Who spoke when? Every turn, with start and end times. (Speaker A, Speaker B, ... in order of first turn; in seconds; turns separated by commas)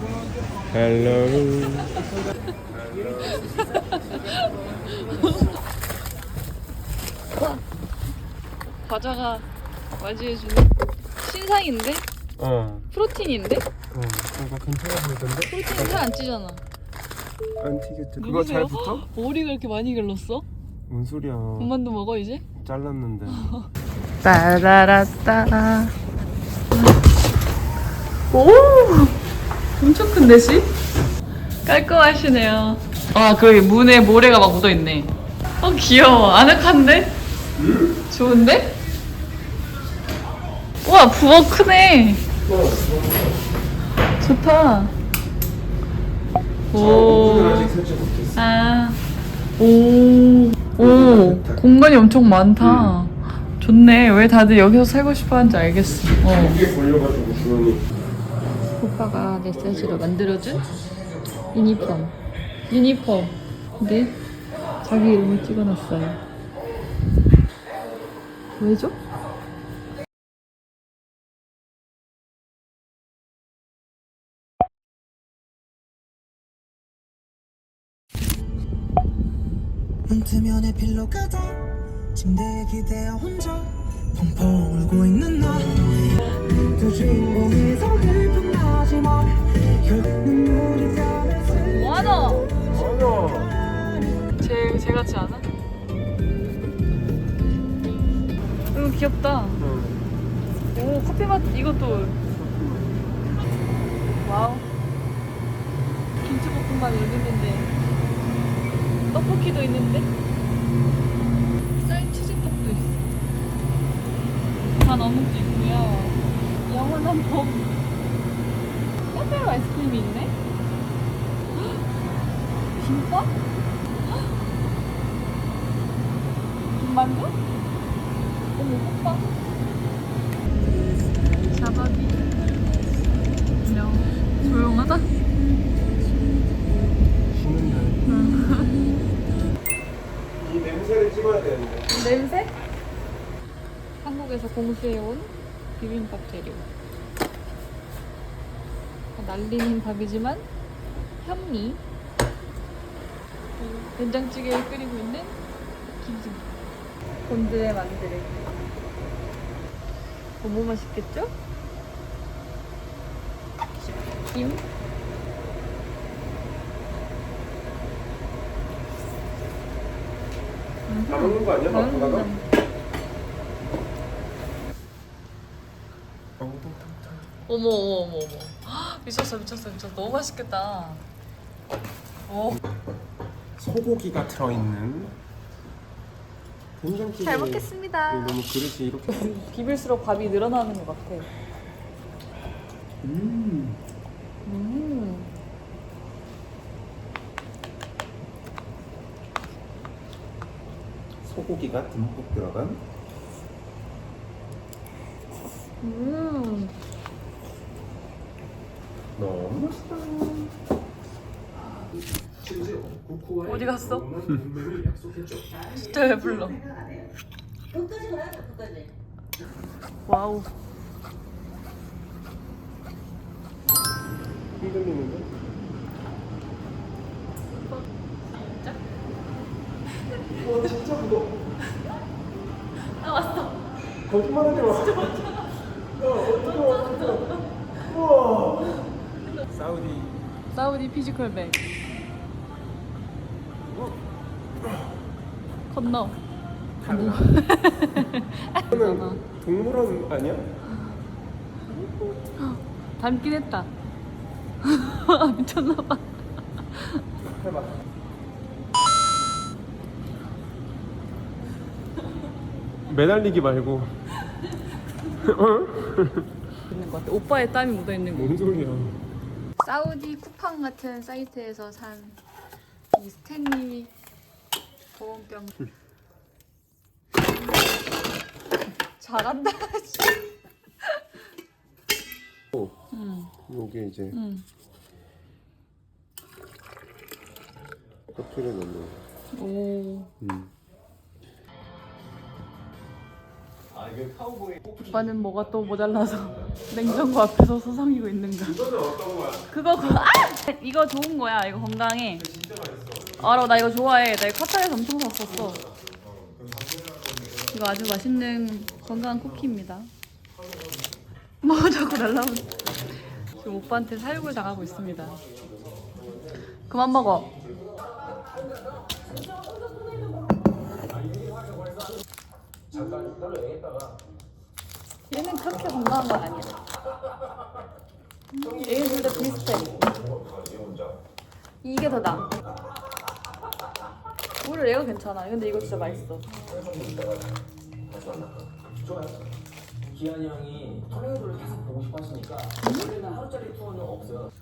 Speaker A: 0.7-2.1, Speaker A: 2.7-3.6, Speaker B: 3.2-5.6, Speaker B: 8.8-9.5, Speaker B: 10.0-12.1, Speaker A: 12.4-12.9, Speaker B: 12.9-13.7, Speaker A: 13.9-16.1, Speaker B: 15.5-16.6, Speaker A: 17.6-19.1, Speaker B: 18.2-20.4, Speaker A: 20.9-21.7, Speaker B: 21.6-22.4, Speaker A: 22.6-23.5, Speaker B: 23.3-23.7, Speaker B: 24.2-25.9, Speaker B: 26.7-27.0, Speaker B: 28.3-29.2, Speaker B: 29.8-30.7, Speaker B: 31.7-37.2, Speaker A: 37.6-37.9, Speaker B: 38.1-38.8, Speaker B: 40.8-42.3, Speaker A: 42.5-43.4, Speaker B: 44.2-45.0, Speaker B: 46.7-47.7, Speaker A: 46.7-48.4, Speaker B: 48.4-49.0, Speaker B: 49.6-56.6, Speaker A: 50.8-51.6, Speaker A: 52.6-53.0, Speaker A: 56.2-57.8, Speaker B: 58.8-60.7, Speaker B: 61.5-62.2, Speaker B: 62.7-64.2, Speaker B: 64.8-66.2, Speaker B: 68.6-69.0, Speaker C: 80.1-92.8, Speaker B: 91.6-92.5, Speaker A: 92.6-93.5, Speaker C: 93.3-94.1, Speaker B: 94.4-95.5, Speaker B: 98.7-99.6, Speaker A: 99.6-100.0, Speaker B: 100.7-102.2, Speaker A: 102.4-102.8, Speaker B: 104.2-104.7, Speaker B: 106.2-107.7, Speaker B: 109.1-110.1, Speaker B: 111.8-113.0, Speaker B: 114.8-117.8, Speaker B: 119.1-120.4, Speaker B: 122.8-123.3, Speaker B: 126.8-127.4, Speaker B: 128.6-129.3, Speaker B: 131.5-132.3, Speaker B: 133.6-135.1, Speaker A: 137.3-138.0, Speaker B: 138.1-138.8, Speaker A: 140.4-141.9, Speaker B: 141.9-142.6, Speaker B: 144.0-146.7, Speaker B: 149.2-150.5, Speaker B: 151.2-151.8, Speaker B: 153.6-155.4, Speaker B: 156.0-156.5, Speaker B: 157.3-158.5, Speaker B: 160.4-161.3, Speaker B: 163.9-164.6, Speaker B: 170.9-172.4, Speaker A: 171.1-172.3, Speaker A: 176.4-177.3, Speaker B: 177.5-181.1, Speaker B: 182.3-182.6, Speaker A: 183.6-185.2, Speaker A: 186.8-189.3, Speaker B: 187.2-188.4, Speaker B: 189.1-191.3, Speaker A: 193.0-193.8, Speaker B: 194.4-195.3, Speaker A: 201.2-202.8, Speaker B: 205.8-206.8, Speaker A: 209.2-210.5, Speaker A: 212.4-215.1, Speaker B: 213.4-214.1, Speaker B: 215.7-216.7, Speaker B: 220.1-220.5, Speaker A: 224.6-225.3, Speaker B: 227.7-228.8, Speaker A: 230.2-231.3, Speaker B: 232.9-233.7, Speaker A: 233.9-235.3, Speaker B: 234.6-235.6, Speaker A: 236.0-238.9, Speaker B: 236.2-237.4, Speaker A: 239.4-240.2, Speaker B: 240.5-241.7, Speaker A: 243.7-243.9, Speaker B: 245.7-246.2, Speaker A: 246.8-247.3, Speaker B: 246.8-249.2, Speaker A: 248.7-250.5, Speaker B: 251.7-253.7, Speaker B: 254.6-256.1, Speaker B: 256.7-257.1, Speaker A: 257.2-257.8, Speaker A: 262.9-263.9, Speaker A: 265.2-266.3, Speaker B: 266.6-268.4, Speaker A: 268.1-269.0, Speaker B: 269.6-272.2, Speaker B: 272.9-273.9, Speaker B: 274.9-275.7, Speaker B: 278.9-280.2, Speaker B: 282.9-283.3, Speaker A: 283.5-284.2, Speaker B: 284.1-284.4, Speaker A: 288.1-289.0, Speaker B: 289.3-290.1, Speaker A: 290.2-290.5, Speaker B: 294.8-298.6, Speaker A: 298.4-299.5, Speaker B: 299.5-302.3, Speaker A: 302.2-303.6, Speaker B: 303.2-305.6, Speaker A: 306.2-306.6, Speaker B: 307.5-309.9, Speaker B: 311.4-312.6, Speaker B: 313.3-315.2, Speaker B: 316.7-317.3, Speaker D: 322.8-323.6, Speaker B: 325.1-326.6, Speaker B: 328.3-330.0, Speaker B: 331.6-332.3, Speaker B: 334.4-336.4, Speaker D: 336.5-337.0, Speaker D: 340.1-342.3, Speaker B: 342.6-343.2, Speaker D: 343.0-343.9